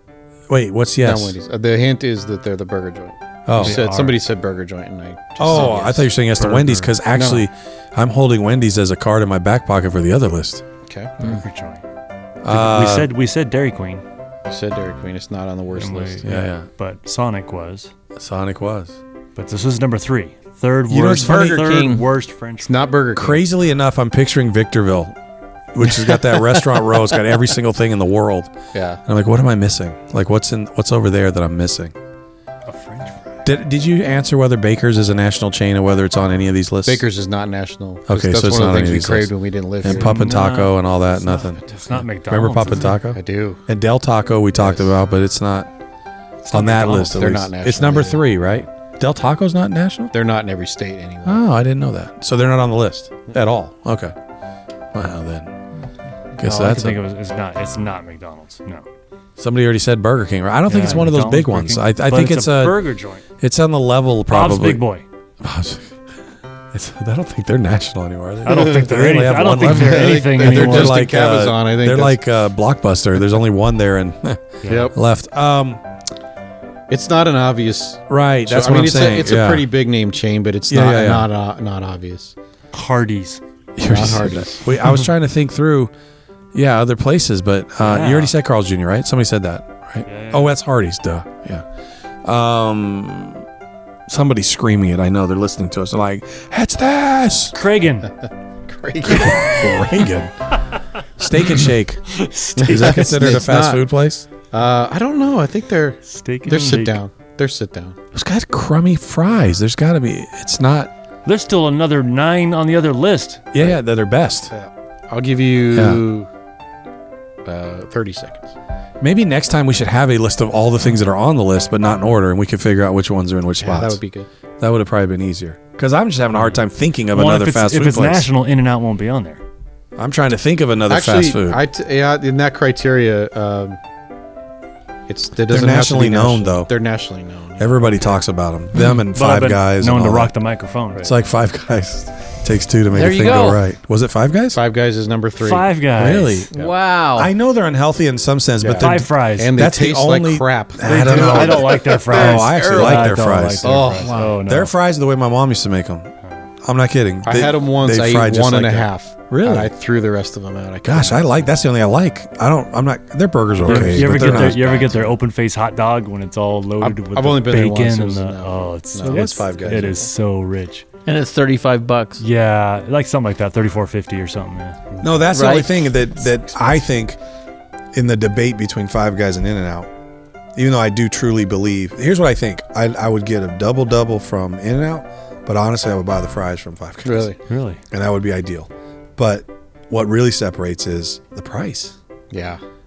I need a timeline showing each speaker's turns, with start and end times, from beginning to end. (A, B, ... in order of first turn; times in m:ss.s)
0:00.5-0:01.4 A
0:01.0-0:07.4 B
0:03.4-0:03.8 A
0:03.5-0:04.2 C
0:05.4-0:10.6 A
0:10.8-0:11.4 B
0:11.2-0:11.8 C
0:12.4-0:13.1 A
0:12.5-0:14.0 C
0:14.5-0:16.2 B
0:15.8-0:17.9 C
0:16.2-0:16.7 A
0:18.2-0:18.9 A
0:19.4-0:22.9 C
0:20.9-0:21.8 A
0:21.2-0:22.0 D
0:22.6-0:23.4 B
0:23.2-0:25.1 A
0:25.7-0:28.5 A
0:25.9-0:26.8 B
0:28.7-0:29.0 B
0:29.0-0:31.9 A
0:32.6-0:33.2 C
0:33.4-0:37.0 A
0:36.8-0:40.2 B
0:38.1-0:45.7 A
0:39.8-0:40.8 C
0:41.4-0:42.9 C
0:43.1-0:43.6 B
0:44.6-0:44.9 B
0:46.4-0:47.2 C
0:46.5-0:50.1 A
0:47.0-0:48.5 B
0:50.1-0:51.4 B
0:51.2-0:54.1 A
0:54.9-0:55.5 A
0:56.4-0:57.0 A
0:56.4-0:58.8 C
0:59.4-1:02.9 A
1:00.7-1:03.2 C
1:03.4-1:04.8 A
1:04.3-1:05.0 C
1:05.4-1:06.0 A
1:06.7-1:15.8 A
1:08.4-1:11.0 C
1:08.5-1:08.8 B
1:09.6-1:12.2 B
1:14.6-1:14.9 C
1:14.6-1:14.9 B
1:16.9-1:22.3 B
1:18.1-1:19.7 A
1:20.7-1:21.3 A
1:22.7-1:23.4 C
1:23.8-1:25.9 A
1:23.8-1:24.7 B
1:26.5-1:31.6 A
1:27.8-1:28.3 C
1:30.0-1:30.6 C
1:32.2-1:33.4 A
1:34.1-1:37.6 A
1:37.5-1:38.1 C
1:38.7-1:39.6 B
1:39.0-1:40.4 A
1:41.2-1:44.3 A
1:41.4-1:43.1 C
1:42.6-1:43.8 B
1:44.5-1:48.0 B
1:46.0-1:47.0 C
1:48.1-1:50.9 A
1:51.2-1:53.5 C
1:53.5-1:54.5 A
1:54.5-1:56.3 B
1:55.7-1:56.0 A
1:57.4-1:58.5 B
1:59.0-2:04.0 A
2:03.6-2:04.3 B
2:04.6-2:08.3 A
2:07.1-2:09.4 C
2:10.0-2:11.6 A
2:10.9-2:13.8 B
2:15.1-2:18.2 B
2:15.5-2:16.7 A
2:17.6-2:20.3 A
2:18.9-2:21.1 C
2:21.0-2:24.6 A
2:22.9-2:23.6 D
2:24.5-2:25.7 B
2:25.4-2:26.5 C
2:26.0-2:26.5 A
2:26.5-2:27.3 D
2:27.2-2:33.8 A
2:28.6-2:32.6 B
2:28.8-2:29.6 C
2:30.8-2:34.7 C
2:32.1-2:32.9 D
2:33.6-2:34.2 B
2:34.0-2:34.4 D
2:34.4-2:36.1 A
2:36.6-2:39.7 A
2:37.2-2:41.5 B
2:40.8-2:45.0 A
2:43.6-2:45.1 B
2:43.6-2:50.8 C
2:46.8-2:50.1 B
2:49.0-2:49.9 A
2:51.0-2:52.2 D
2:52.2-2:54.8 C
2:55.0-2:57.2 A
2:55.2-2:55.9 D
2:57.9-2:59.9 A
3:00.5-3:07.3 A
3:07.0-3:07.4 B
3:07.5-3:07.8 C
3:07.9-3:11.9 A
3:12.3-3:12.6 B